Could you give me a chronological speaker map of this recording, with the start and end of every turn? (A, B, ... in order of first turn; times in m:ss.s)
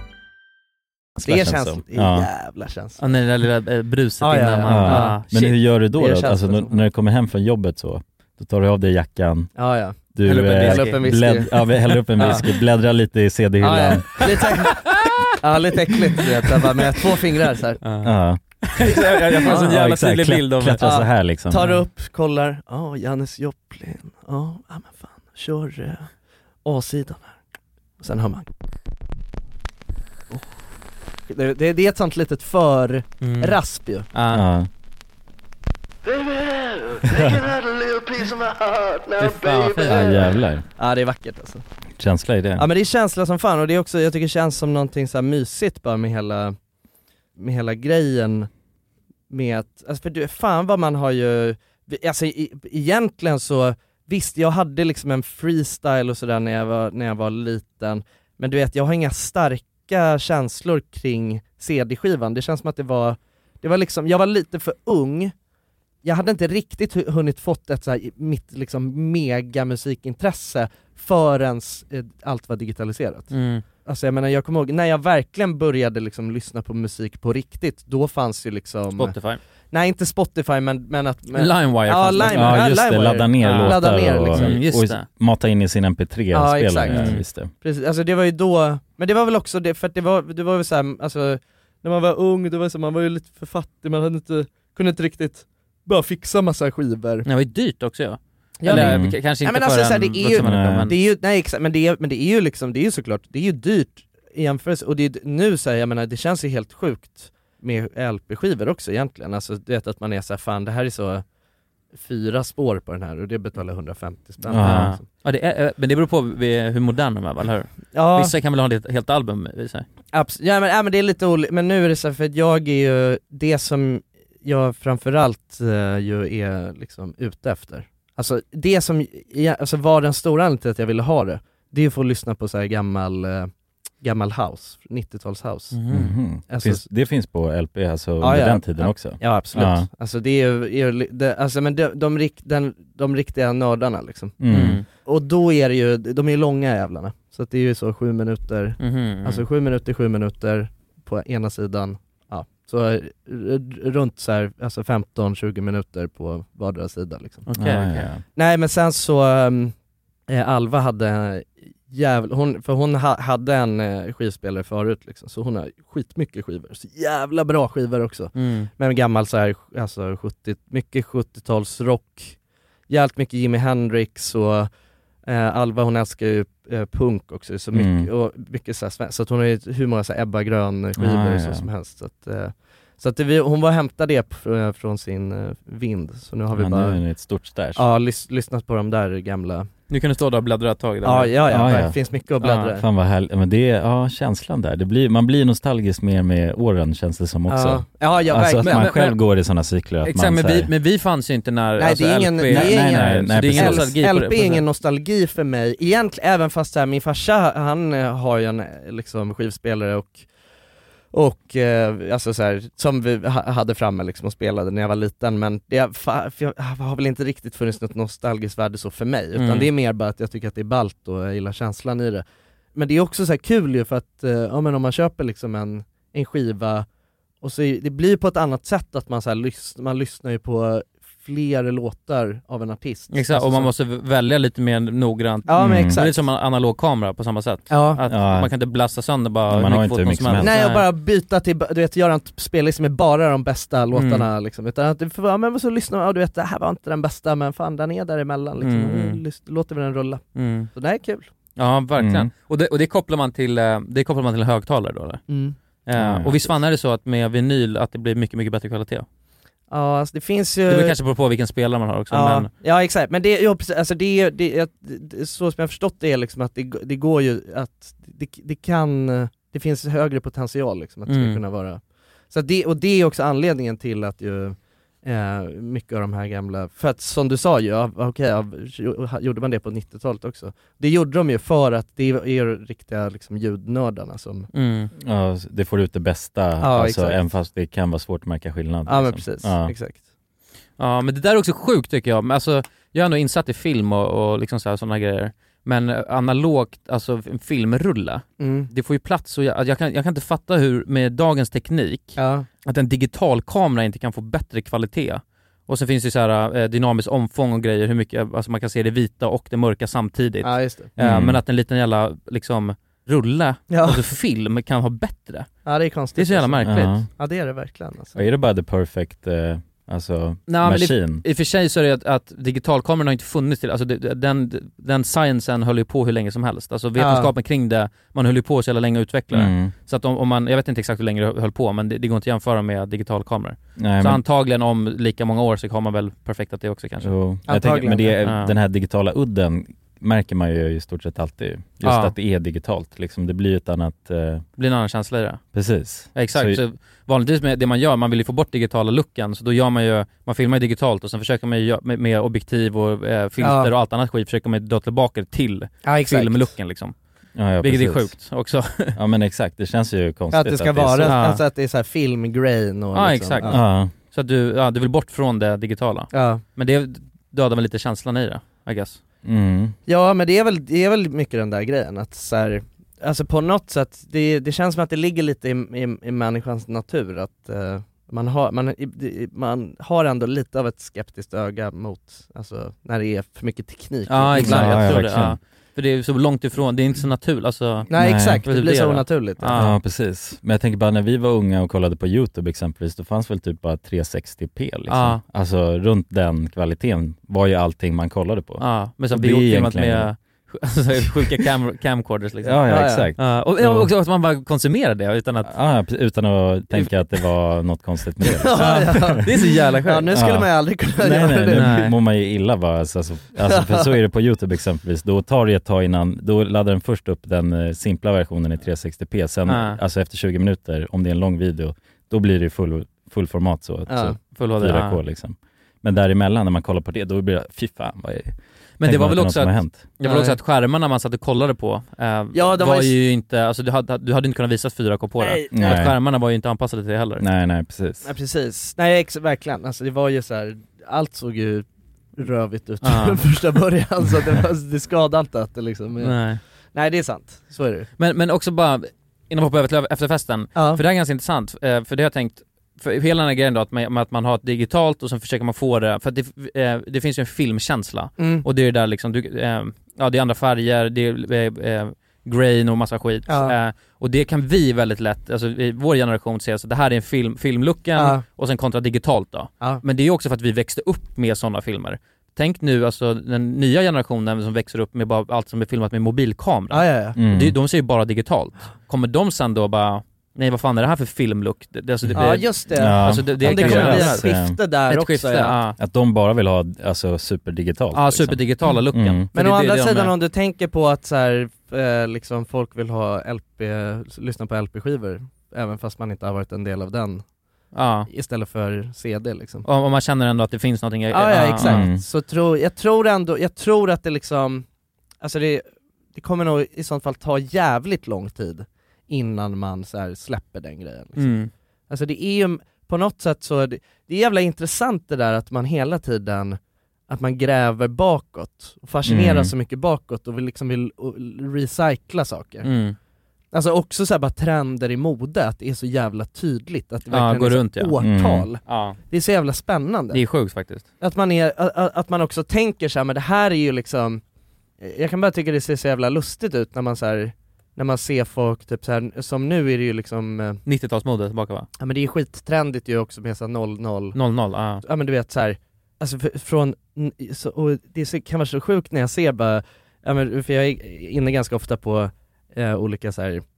0:01.2-0:02.3 A
0:01.2-0:03.2 B
0:03.0-0:05.6 C
0:04.2-0:06.8 B
0:04.7-0:09.5 A
0:09.6-0:11.5 B
0:10.2-0:14.2 A
0:10.4-0:11.0 C
0:11.9-0:12.6 C
0:12.2-0:12.4 B
0:13.6-0:17.8 B
0:14.2-0:15.3 C
0:17.8-0:18.1 C
0:18.0-0:21.7 A
0:18.6-0:21.1 C
0:19.4-0:19.7 B
0:20.8-0:26.1 B
0:26.6-0:27.4 B
0:28.0-0:28.5 B
0:31.3-0:34.1 B
0:33.2-0:33.6 C
0:34.1-0:34.4 C
0:34.3-0:34.7 A
0:36.1-0:40.2 B
0:39.2-0:40.2 C
0:39.8-0:40.6 A
0:40.8-0:41.6 B
0:42.0-0:42.7 A
0:42.6-0:46.6 B
0:47.4-0:48.5 B
0:49.3-1:05.3 B
1:06.0-1:13.3 B
1:13.3-1:13.6 C
1:13.8-1:19.1 B
1:19.0-1:19.4 C
1:19.7-1:24.6 B
1:21.3-1:22.8 C
1:22.3-1:27.5 A
1:23.4-1:25.1 C
1:26.3-1:37.3 B
1:26.9-1:27.2 C
1:37.2-1:41.0 C
1:38.6-1:51.2 B
1:38.7-1:39.2 A
1:40.3-1:40.9 A
1:51.9-1:55.0 B
1:54.5-1:55.0 A
1:54.6-1:59.9 C
1:57.9-1:58.3 B
2:00.1-2:13.5 B
2:14.0-2:15.8 B
2:15.7-2:16.2 C
2:15.9-2:19.9 A
2:16.5-2:16.9 B
2:18.2-2:24.4 B
2:24.4-2:24.8 A
2:24.5-2:24.8 C
2:25.0-2:37.5 B
2:28.8-2:29.4 C
2:37.5-2:38.1 C
2:37.6-2:38.2 A
2:38.4-2:39.7 B
2:40.3-2:52.4 B
2:48.4-2:48.7 C
2:52.9-2:54.7 B
2:55.3-3:07.0 B
2:57.7-2:58.1 A
3:01.0-3:01.7 A
3:06.5-3:07.8 A
3:07.8-3:09.7 B
3:09.9-3:11.9 C
3:11.0-3:12.8 B
3:11.5-3:12.0 A
3:12.4-3:12.7 C
3:12.8-3:20.7 A
3:17.5-3:19.1 B
3:18.6-3:19.2 C
3:20.0-3:24.6 C
3:21.8-3:30.3 B
3:22.5-3:24.0 A
3:31.1-3:42.2 B
3:39.3-3:39.7 C
3:42.8-3:46.9 B
3:47.4-3:53.7 B
3:53.1-4:00.8 C
3:55.5-3:56.3 B
3:55.6-3:56.0 A
3:57.7-3:58.0 B
3:58.1-3:58.5 A
3:59.5-4:00.6 A
4:00.4-4:11.3 B
4:03.9-4:04.3 C
4:08.6-4:09.2 C
4:10.4-4:10.7 C
4:11.6-4:15.2 C
4:12.0-4:12.3 A
4:15.3-4:15.6 B
4:15.9-4:19.1 C
4:16.0-4:16.6 A
4:19.7-4:21.0 B
4:20.7-4:22.5 C
4:22.1-4:44.5 B
4:31.1-4:31.4 C
4:44.5-4:44.9 C
4:45.0-4:49.8 A
4:46.6-4:47.3 B
4:48.9-4:50.0 B
4:50.8-5:15.5 C
4:58.4-4:58.7 B
5:02.2-5:02.5 B
5:10.4-5:10.9 B
5:11.0-5:11.4 A
5:13.7-5:14.0 B
5:15.6-5:18.2 B
5:16.2-5:17.0 C
5:16.6-5:17.1 A
5:18.2-5:21.2 A
5:20.5-5:37.1 C
5:27.0-5:27.3 B
5:29.3-5:29.7 A
5:33.8-5:34.2 A
5:37.0-5:44.4 A
5:37.5-5:38.2 B
5:38.2-5:38.6 C
5:41.8-5:42.2 C
5:44.6-5:45.4 C
5:45.5-5:46.6 A
5:46.2-5:57.0 C
5:53.4-5:53.7 B
5:55.8-5:56.5 B
5:57.4-5:58.1 A
5:57.6-5:59.0 C
5:59.0-6:01.2 A
6:00.3-6:03.6 B
6:01.0-6:01.4 C
6:02.9-6:09.0 C
6:03.5-6:03.9 A
6:06.1-6:06.4 B
6:09.2-6:09.8 A
6:09.9-6:25.0 B
6:24.1-6:27.9 C
6:24.3-6:25.4 A
6:27.9-6:29.6 B
6:27.9-6:28.4 A
6:28.4-6:29.8 C
6:29.5-6:40.1 A
6:34.9-6:35.2 C
6:38.6-6:45.5 C
6:42.4-6:43.9 A
6:42.7-6:43.1 B
6:45.4-6:49.3 A
6:48.4-6:51.9 B
6:48.5-6:50.1 C
6:50.1-7:09.9 A
6:51.5-6:52.0 C
6:53.5-6:53.9 B
6:59.5-6:59.8 C
7:03.9-7:04.2 B
7:04.3-7:05.0 C
7:08.8-7:17.2 C
7:10.0-7:10.4 B
7:12.3-7:12.9 B
7:15.2-7:15.8 B
7:15.5-7:16.0 A
7:17.2-7:18.1 A
7:18.0-7:21.7 B
7:22.2-7:26.2 B
7:22.8-7:23.2 C
7:26.0-7:26.4 C
7:26.7-7:27.9 B
7:28.0-8:05.8 C
7:30.6-7:30.8 B
7:38.2-7:38.4 B
7:43.3-7:43.6 B
7:48.0-7:48.2 B
7:56.7-7:57.2 B
7:57.2-7:57.6 A
8:02.2-8:05.6 B
8:02.7-8:04.6 A
8:05.8-8:09.3 A
8:07.9-8:10.1 C
8:09.3-8:17.2 B
8:17.7-8:18.1 C
8:18.1-8:19.6 B
8:19.6-8:21.8 C
8:21.1-8:24.7 B
8:21.6-8:22.0 A
8:25.2-8:25.6 B
8:26.2-8:31.4 B
8:31.2-8:31.5 C
8:31.9-8:42.7 B
8:39.1-8:39.5 A
8:42.6-8:43.0 C
8:43.5-8:50.2 B
8:47.1-8:48.0 C
8:48.0-8:48.5 A
8:48.6-8:49.0 C
8:50.1-8:50.8 C
8:51.0-8:54.2 B
8:54.8-9:00.6 B
9:00.7-9:01.7 C
9:01.8-9:04.2 B
9:04.1-9:04.8 C
9:04.8-9:13.4 B